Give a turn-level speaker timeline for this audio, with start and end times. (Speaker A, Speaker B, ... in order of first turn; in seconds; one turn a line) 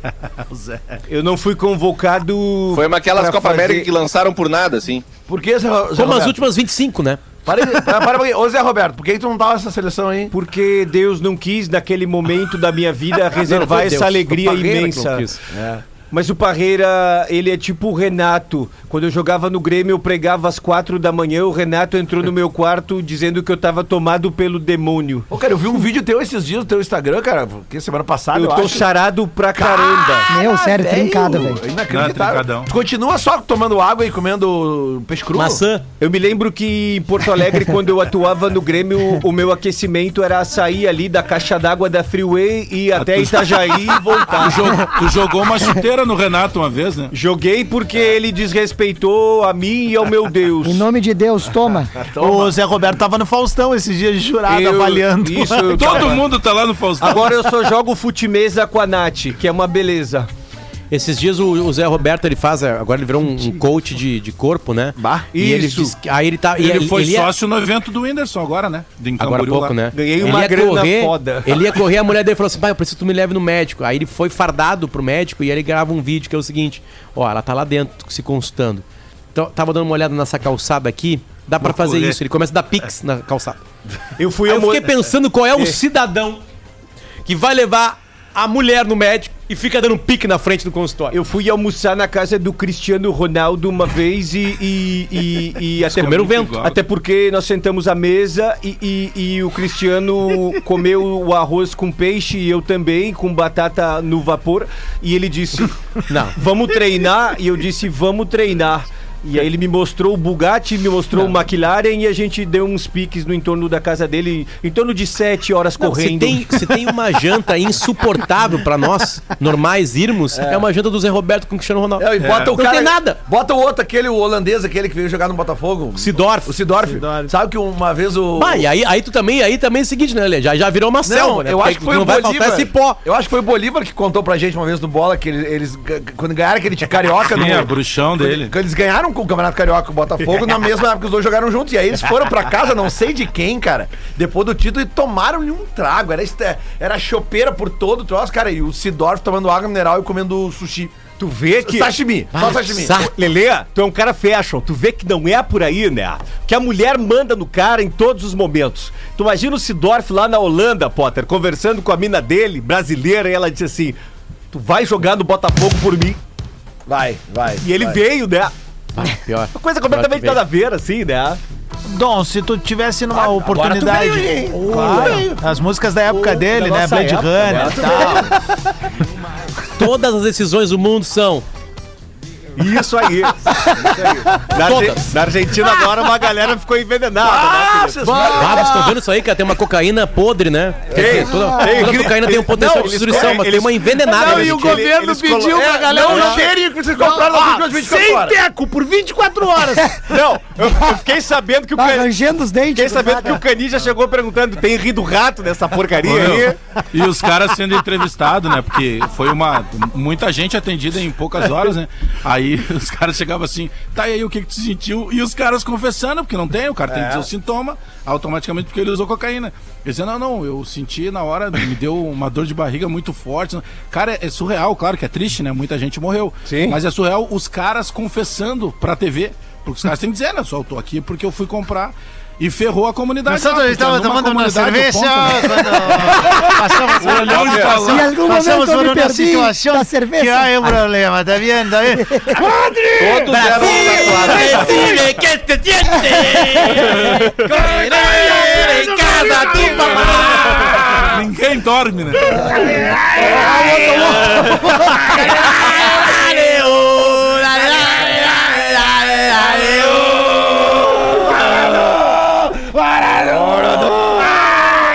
Speaker A: 0.5-1.0
Speaker B: 1.1-3.9
Speaker C: 2.7-5.0
Speaker D: 5.3-6.5
Speaker E: 6.0-7.2
Speaker D: 7.5-10.3
Speaker B: 10.3-15.3
Speaker E: 13.3-15.4
Speaker D: 15.5-15.8
Speaker B: 16.1-25.3
Speaker D: 25.3-28.9
Speaker B: 28.3-30.3
Speaker D: 29.6-35.6
Speaker F: 30.3-31.6
Speaker A: 31.9-32.7
Speaker E: 35.3-35.9
Speaker B: 36.0-44.9
Speaker A: 42.9-47.1
Speaker B: 47.1-50.9
Speaker F: 50.6-51.9
Speaker B: 52.1-52.5
Speaker G: 52.2-56.1
Speaker B: 54.5-56.3
Speaker A: 55.6-57.4
Speaker B: 57.0-60.3
Speaker E: 60.9-67.3
Speaker G: 65.0-65.3
Speaker B: 65.3-66.0
Speaker A: 66.5-70.5
Speaker E: 69.2-83.6
Speaker B: 69.9-71.8
Speaker A: 81.6-82.2
Speaker B: 84.2-85.8
Speaker E: 84.5-86.4
Speaker E: 87.2-91.2
Speaker B: 91.1-105.8
Speaker A: 95.9-96.8
Speaker E: 95.9-96.6
Speaker E: 106.1-106.4
Speaker B: 106.3-116.7
Speaker E: 115.8-123.2
Speaker D: 120.3-120.7
Speaker D: 122.0-128.7
Speaker E: 126.0-126.6
Speaker G: 126.8-127.3
Speaker E: 128.4-133.0
Speaker D: 131.0-151.0
Speaker A: 137.2-138.5
Speaker B: 151.2-151.9
Speaker D: 151.6-153.0
Speaker E: 152.3-153.1
Speaker B: 152.9-164.0
Speaker B: 164.5-166.2
Speaker D: 166.9-168.0
Speaker B: 167.6-168.5
Speaker E: 168.9-170.4
Speaker B: 169.5-171.4
Speaker G: 171.9-178.3
Speaker D: 173.1-175.3
Speaker B: 174.5-175.4
Speaker B: 176.1-178.3
Speaker D: 177.5-178.3
Speaker E: 179.8-181.4
Speaker B: 182.6-188.7
Speaker E: 184.6-185.1
Speaker D: 187.2-189.0
Speaker E: 188.2-194.9
Speaker B: 190.9-196.4
Speaker F: 191.1-191.9
Speaker G: 194.0-200.1
Speaker D: 195.6-198.4
Speaker B: 200.1-202.2
Speaker F: 201.8-203.4
Speaker B: 202.7-206.6
Speaker A: 206.0-238.1
Speaker D: 216.9-217.3
Speaker B: 226.5-226.8
Speaker G: 233.3-242.4
Speaker C: 237.0-237.9
Speaker F: 237.7-240.8
Speaker F: 242.0-242.4
Speaker A: 242.3-245.0
Speaker C: 243.0-245.0
Speaker E: 243.3-250.8
Speaker A: 246.2-252.9
Speaker F: 253.2-254.1
Speaker G: 253.3-254.8
Speaker E: 253.6-260.1
Speaker D: 263.2-264.3
Speaker B: 263.6-263.9